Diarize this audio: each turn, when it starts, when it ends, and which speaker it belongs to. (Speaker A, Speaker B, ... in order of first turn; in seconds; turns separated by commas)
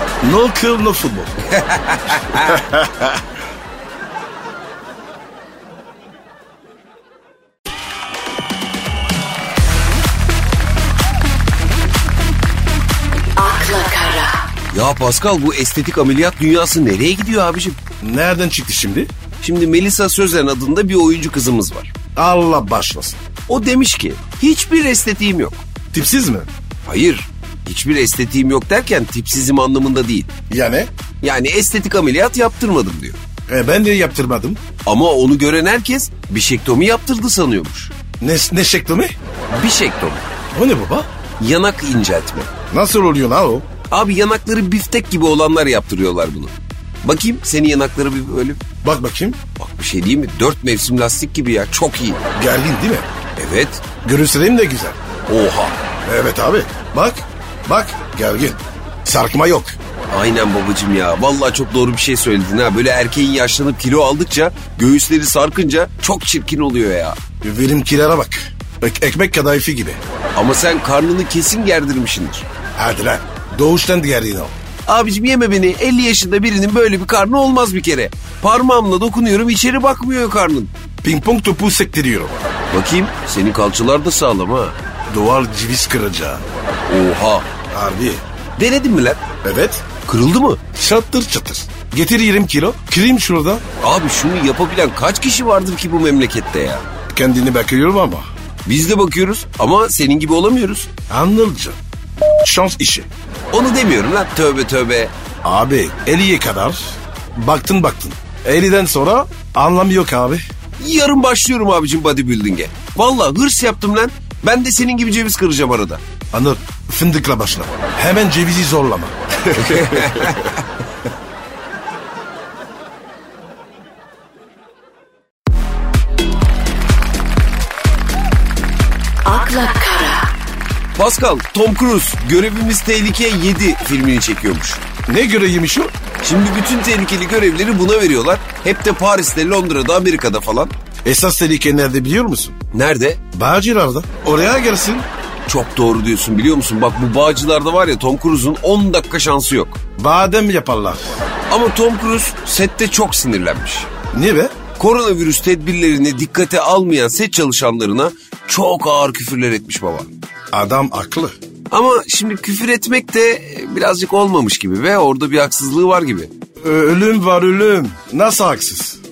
Speaker A: 0.2-1.4, Speaker B: 1.5-2.6, Speaker A: 2.3-3.2, Speaker C: 13.4-14.3, Speaker B: 14.7-17.8, Speaker A: 18.0-19.1, Speaker B: 19.4-21.9, Speaker A: 22.1-23.2, Speaker B: 23.5-25.6, Speaker A: 25.9-26.5, Speaker B: 26.9-30.3, Speaker A: 30.5-30.9, Speaker B: 31.2-33.2, Speaker A: 33.5-34.6, Speaker B: 34.8-37.9, Speaker A: 38.2-39.1, Speaker B: 39.5-40.2, Speaker A: 40.5-41.1, Speaker B: 41.4-42.5, Speaker A: 42.7-43.6, Speaker B: 43.9-48.6, Speaker A: 48.8-49.4, Speaker B: 49.6-52.2, Speaker A: 52.3-53.1, Speaker B: 53.4-53.8, Speaker A: 54.0-55.0, Speaker B: 55.3-55.8, Speaker A: 56.0-59.8, Speaker B: 60.1-67.2, Speaker A: 67.4-70.0, Speaker B: 70.3-72.5, Speaker A: 72.8-74.5, Speaker B: 74.9-80.7, Speaker A: 81.0-82.3, Speaker B: 82.7-84.8, Speaker A: 85.1-86.4, Speaker B: 86.9-87.5, Speaker A: 87.7-88.2, Speaker B: 88.6-89.2, Speaker A: 89.4-89.8, Speaker B: 90.0-90.6, Speaker A: 90.7-93.6, Speaker B: 93.8-96.8, Speaker A: 97.1-98.3, Speaker B: 98.7-100.9, Speaker A: 101.1-103.1, Speaker B: 103.5-105.1, Speaker A: 105.4-110.4, Speaker B: 110.8-116.0, Speaker A: 116.3-120.4, Speaker B: 119.6-120.6, Speaker C: 129.3-130.2, Speaker B: 130.9-134.8, Speaker A: 135.1-135.9, Speaker B: 136.2-140.7, Speaker A: 141.0-142.6, Speaker B: 142.7-143.2, Speaker A: 143.3-145.1, Speaker B: 145.5-149.8, Speaker A: 150.0-151.2, Speaker B: 151.5-153.9, Speaker A: 154.1-154.5, Speaker B: 154.7-160.1, Speaker A: 160.5-161.3, Speaker B: 161.7-166.3, Speaker A: 166.6-169.0